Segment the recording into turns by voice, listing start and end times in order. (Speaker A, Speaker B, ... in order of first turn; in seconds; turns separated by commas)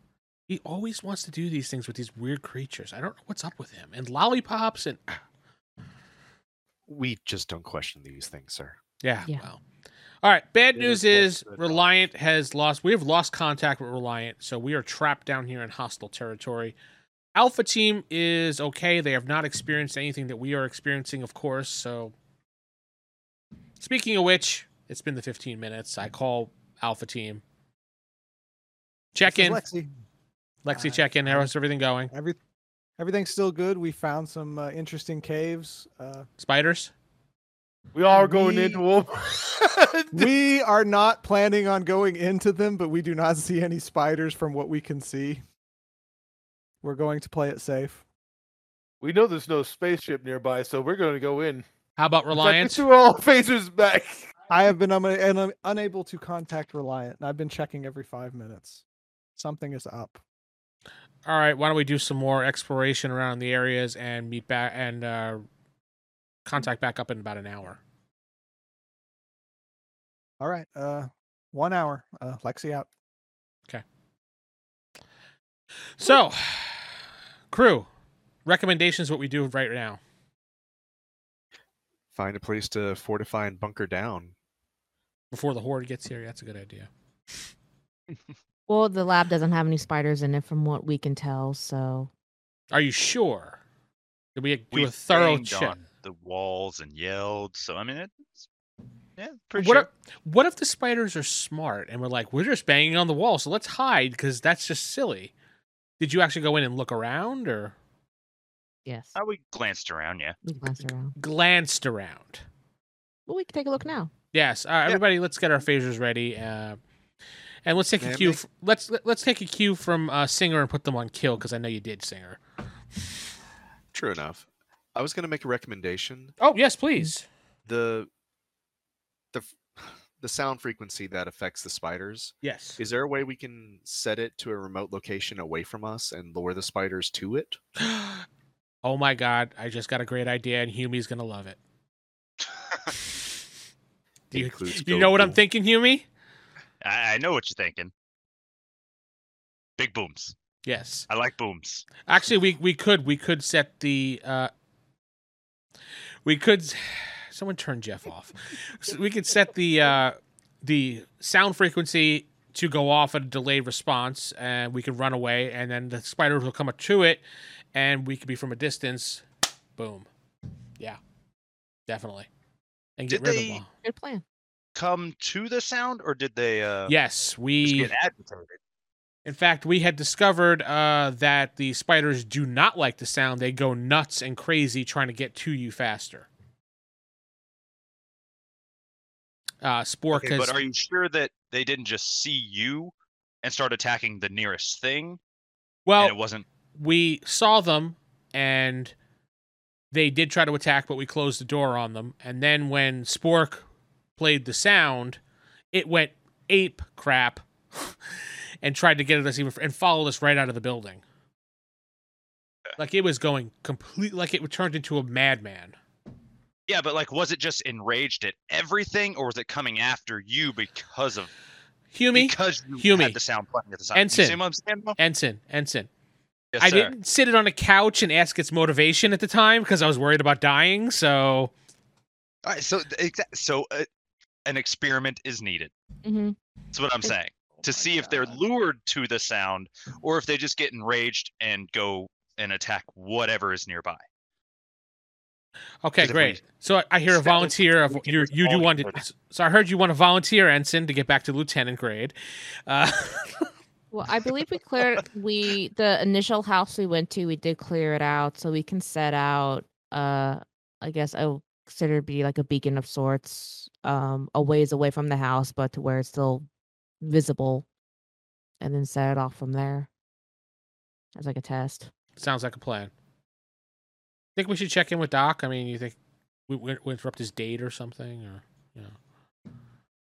Speaker A: 0.5-5.2, Speaker B: 6.9-8.8, Speaker A: 9.0-9.6, Speaker A: 10.2-16.7, Speaker B: 10.7-11.9, Speaker A: 17.3-22.1, Speaker A: 23.8-27.4, Speaker A: 29.1-29.6, Speaker C: 29.2-29.9, Speaker A: 30.6-32.1, Speaker C: 30.7-31.5, Speaker C: 32.1-32.4, Speaker C: 33.0-36.3, Speaker A: 36.4-36.9, Speaker D: 37.9-40.3, Speaker C: 38.1-38.8, Speaker C: 40.1-45.4, Speaker C: 46.8-48.0, Speaker D: 49.0-51.6, Speaker A: 52.0-52.8, Speaker D: 52.3-54.3, Speaker C: 54.5-58.8, Speaker C: 59.4-60.2, Speaker A: 61.2-65.4, Speaker A: 66.5-67.8, Speaker C: 70.4-72.9, Speaker A: 76.0-77.0, Speaker A: 77.5-77.9, Speaker A: 78.4-80.0, Speaker B: 82.1-84.3, Speaker A: 85.3-86.9, Speaker E: 88.7-92.1, Speaker A: 92.7-93.6, Speaker A: 94.3-95.8, Speaker F: 94.7-98.4, Speaker F: 99.2-99.9, Speaker A: 99.6-105.3, Speaker A: 106.0-107.7, Speaker E: 108.8-109.1, Speaker F: 109.1-110.4, Speaker E: 110.4-111.2, Speaker A: 111.1-112.4, Speaker E: 113.3-114.1, Speaker A: 114.3-116.8, Speaker A: 117.6-122.4, Speaker B: 118.0-118.4, Speaker B: 123.9-126.3, Speaker A: 126.4-127.2, Speaker B: 127.7-128.1, Speaker B: 129.3-137.6, Speaker A: 132.4-132.8, Speaker A: 137.8-138.2, Speaker A: 138.8-141.6, Speaker F: 142.4-142.9, Speaker A: 144.3-146.1, Speaker B: 144.3-145.4, Speaker F: 146.8-147.9, Speaker F: 149.8-150.3, Speaker A: 150.6-151.1, Speaker F: 151.1-151.9, Speaker A: 152.0-154.5, Speaker A: 156.2-167.2, Speaker A: 167.7-169.2, Speaker A: 169.8-170.1, Speaker A: 171.9-172.3, Speaker A: 173.0-173.7, Speaker F: 173.1-173.6, Speaker E: 173.8-174.2, Speaker F: 174.8-176.9, Speaker A: 176.9-177.9, Speaker F: 177.6-178.6, Speaker A: 179.2-186.3, Speaker A: 189.6-190.5, Speaker F: 190.1-195.2, Speaker A: 195.8-196.1, Speaker F: 196.0-196.4, Speaker A: 196.8-198.9, Speaker A: 199.9-203.6, Speaker A: 204.2-205.2, Speaker A: 205.7-207.9, Speaker A: 208.6-211.0, Speaker A: 212.8-215.7, Speaker F: 216.7-221.3, Speaker A: 221.9-223.2, Speaker F: 222.1-225.0, Speaker A: 223.9-224.4, Speaker A: 225.0-225.9, Speaker F: 226.5-226.9, Speaker A: 226.6-231.5, Speaker F: 232.4-233.9, Speaker F: 234.4-235.7, Speaker E: 236.0-236.4, Speaker F: 236.7-244.0, Speaker A: 245.8-252.1, Speaker F: 246.0-246.4, Speaker F: 247.1-249.0, Speaker A: 252.7-253.5, Speaker E: 253.9-266.5, Speaker E: 267.0-267.6, Speaker E: 268.6-269.9, Speaker E: 271.1-271.9, Speaker A: 272.2-272.9, Speaker A: 274.4-276.0, Speaker A: 276.5-278.9